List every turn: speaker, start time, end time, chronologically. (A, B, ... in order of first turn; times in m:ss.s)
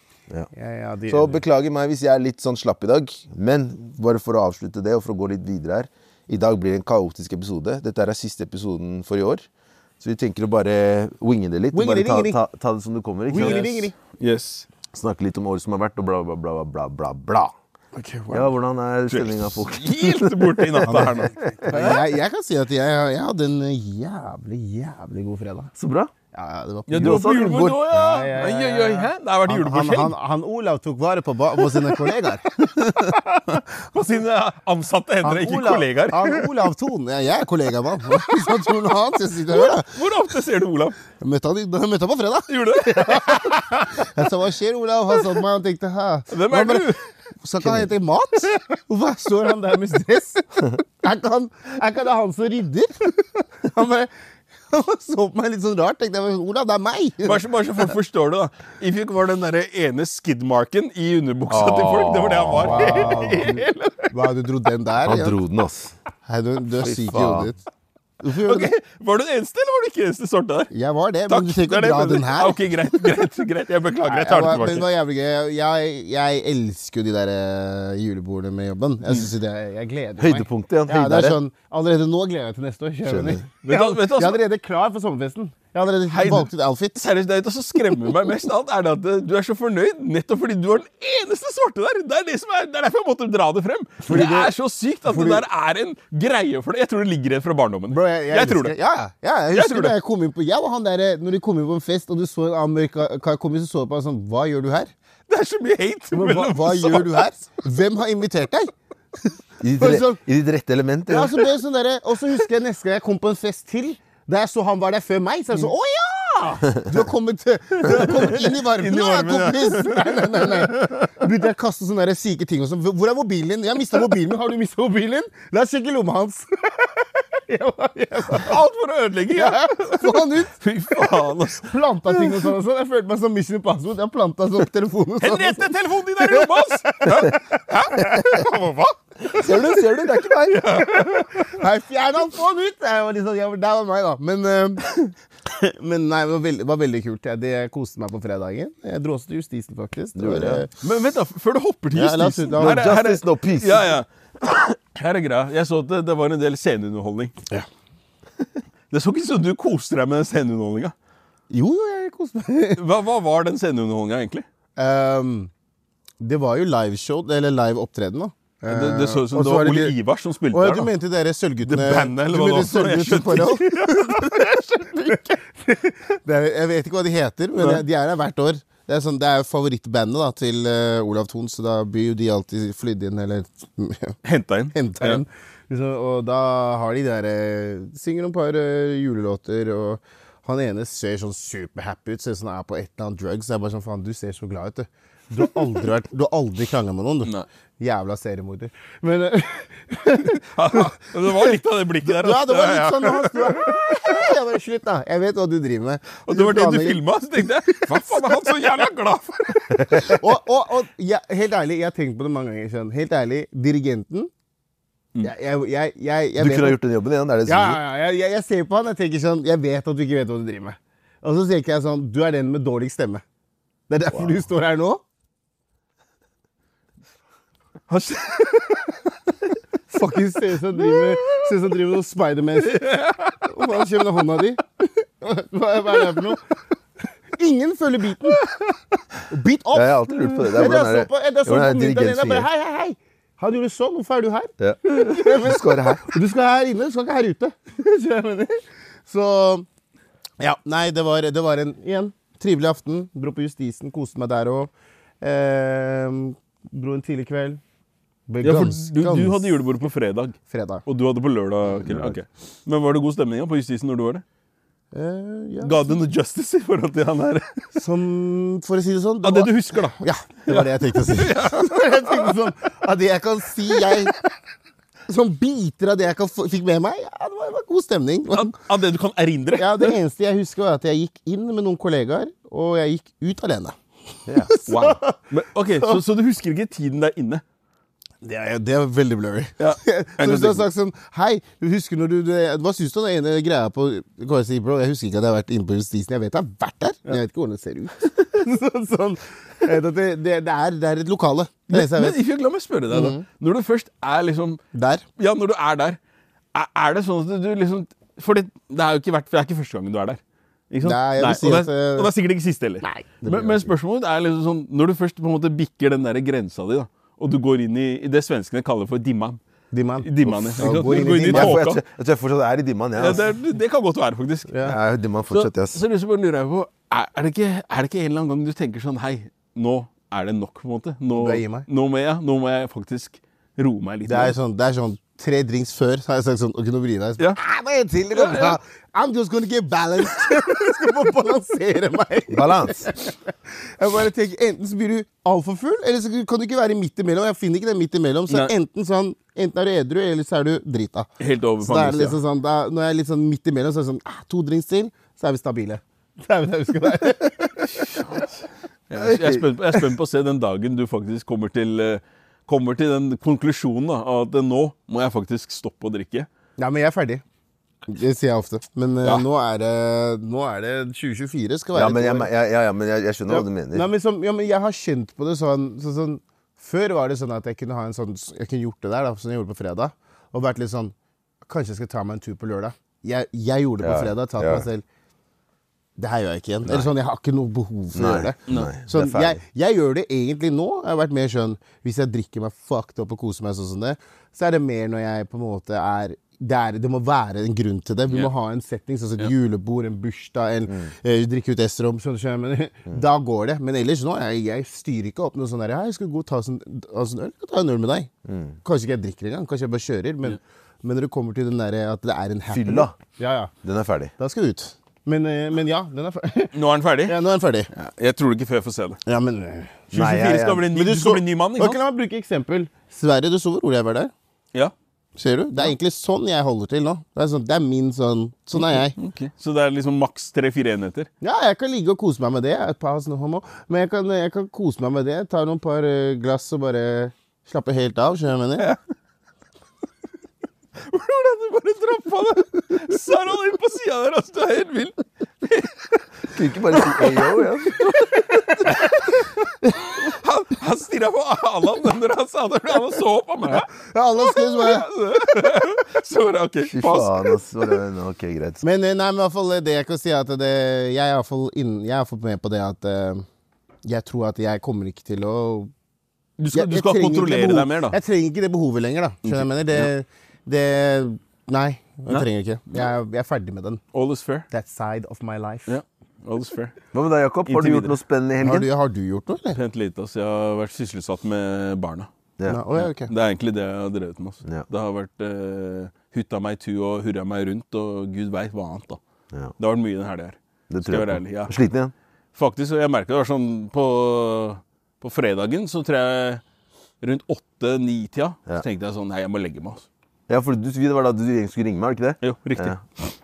0:00.5-0:01.4 A
0:01.1-0:09.4 B
0:10.0-0:13.9 B
0:11.7-0:12.4 A
0:13.3-0:13.9 A
0:13.4-0:14.7 C
0:14.9-0:17.5 B
0:18.0-0:18.5 A
0:18.3-0:22.0 B
0:19.1-0:22.0 C
0:20.8-0:25.7 A
0:25.8-0:26.1 B
0:26.3-0:33.2 A
0:26.9-0:30.2 C
0:27.0-0:27.9 B
0:31.6-0:36.5 C
0:35.2-0:40.0 A
0:38.1-0:38.7 C
0:39.5-0:41.0 C
0:41.2-0:54.1 A
0:42.5-0:44.1 C
0:46.3-0:47.0 C
0:54.7-0:57.9 A
0:57.2-1:04.2 C
1:01.5-1:03.3 B
1:02.6-1:05.4 A
1:05.0-1:06.0 B
1:06.2-1:07.6 A
1:06.8-1:07.5 B
1:08.2-1:08.7 A
1:08.3-1:10.7 C
1:10.7-1:13.0 A
1:11.3-1:14.9 C
1:14.0-1:27.0 A
1:20.2-1:21.4 B
1:23.1-1:23.4 B
1:23.6-1:24.4 C
1:26.1-1:38.8 C
1:34.0-1:34.5 A
1:35.0-1:35.4 A
1:37.9-1:44.9 A
1:39.5-1:40.0 C
1:45.3-1:47.2 C
1:46.1-1:48.7 A
1:49.6-1:51.4 B
1:49.8-1:50.2 A
1:51.1-2:08.6 A
1:57.8-2:01.1 C
2:08.3-2:12.5 C
2:09.4-2:18.4 A
2:15.2-2:21.5 C
2:19.3-2:20.8 B
2:20.9-2:30.7 A
2:30.2-2:30.6 B
2:30.8-2:37.4 C
2:31.9-2:33.0 A
2:32.6-2:33.9 B
2:38.9-2:40.9 C
2:41.5-2:42.8 A
2:42.8-2:44.4 C
2:44.8-2:45.5 A
2:46.2-2:50.0 A
2:48.7-2:50.9 C
2:50.5-3:04.2 A
2:51.6-2:54.6 C
2:57.6-2:57.8 C
3:04.2-3:05.2 C
3:04.7-3:28.5 A
3:20.2-3:24.3 C
3:26.2-3:30.2 C
3:29.8-3:30.1 B
3:29.8-3:34.3 A
3:35.2-3:36.8 A
3:36.4-3:37.8 B
3:37.5-3:43.2 A
3:43.9-3:45.0 A
3:47.9-3:49.0 C
3:49.9-3:52.9 A
3:50.7-3:51.4 C
3:52.6-3:53.4 C
3:53.4-3:56.4 A
3:57.4-3:58.6 A
3:59.3-4:09.7 A
3:59.7-4:02.5 B
4:04.6-4:06.0 B
4:10.4-4:17.6 A
4:18.3-4:19.5 A
4:18.4-4:24.2 C
4:20.5-4:20.8 A
4:21.9-4:22.1 B
4:24.9-4:26.0 A
4:25.6-4:27.6 C
4:27.8-4:34.2 A
4:29.2-4:32.4 C
4:35.1-4:38.6 A
4:38.3-4:40.0 C
4:39.6-4:43.8 A
4:44.4-4:45.3 A
4:44.7-4:47.4 C
4:48.2-5:02.2 A
4:49.6-4:50.7 C
5:01.7-5:04.6 C
5:02.9-5:03.2 A
5:04.7-5:05.0 A
5:05.2-5:06.0 C
5:06.5-5:10.2 C
5:10.7-5:19.4 C
5:10.8-5:12.1 A
5:12.8-5:13.7 A
5:19.7-5:21.6 A
5:20.0-5:21.8 C
5:20.3-5:23.3 B
5:23.0-5:24.5 C
5:24.5-5:24.8 A
5:24.6-5:25.8 B
5:25.3-5:34.4 C
5:31.1-5:31.7 A
5:34.1-5:51.1 A
5:38.1-5:38.6 C
5:42.3-5:42.9 B
5:51.2-5:52.2 C
5:51.6-5:58.0 A
5:57.7-6:06.3 C
5:59.0-5:59.4 B
6:06.6-6:07.2 A
6:07.9-6:12.3 A
6:11.7-6:13.9 B
6:13.3-6:20.9 A
6:21.4-6:24.8 A
6:23.8-6:24.7 B
6:26.0-6:48.1 A
6:28.0-6:29.4 B
6:48.2-6:48.6 B
6:48.6-6:53.5 A
6:52.5-6:53.0 B
6:53.6-6:54.1 B
6:54.2-6:57.7 A
6:56.5-6:57.2 C
6:57.7-6:59.0 C
6:59.1-6:59.9 A
6:59.9-7:01.8 C
6:59.9-7:00.7 B
7:00.7-7:04.1 A
7:05.2-7:09.0 A
7:08.6-7:11.1 C
7:11.2-7:18.7 A
7:20.8-7:26.0 C
7:26.3-7:28.1 B
7:26.8-7:27.3 C
7:27.8-7:29.3 C
7:29.9-7:37.8 C
7:33.7-7:34.9 A
7:36.7-7:38.6 B
7:38.6-7:43.3 A
7:43.8-7:45.7 A
7:46.4-7:48.0 C
7:46.5-7:53.8 A
7:49.2-7:49.9 C
7:52.1-7:52.9 C
7:53.9-7:54.5 C
7:54.5-7:55.8 A
7:55.7-7:56.8 C
7:56.9-7:58.7 B
7:57.5-7:58.0 C
7:58.4-7:59.6 A
7:59.6-8:02.1 C
8:02.5-8:03.1 A
8:02.8-8:09.0 C
8:09.6-8:11.6 C
8:10.7-8:11.9 B
8:12.4-8:16.4 C
8:17.0-8:19.9 C
8:20.3-8:22.8 B
8:22.2-8:23.1 C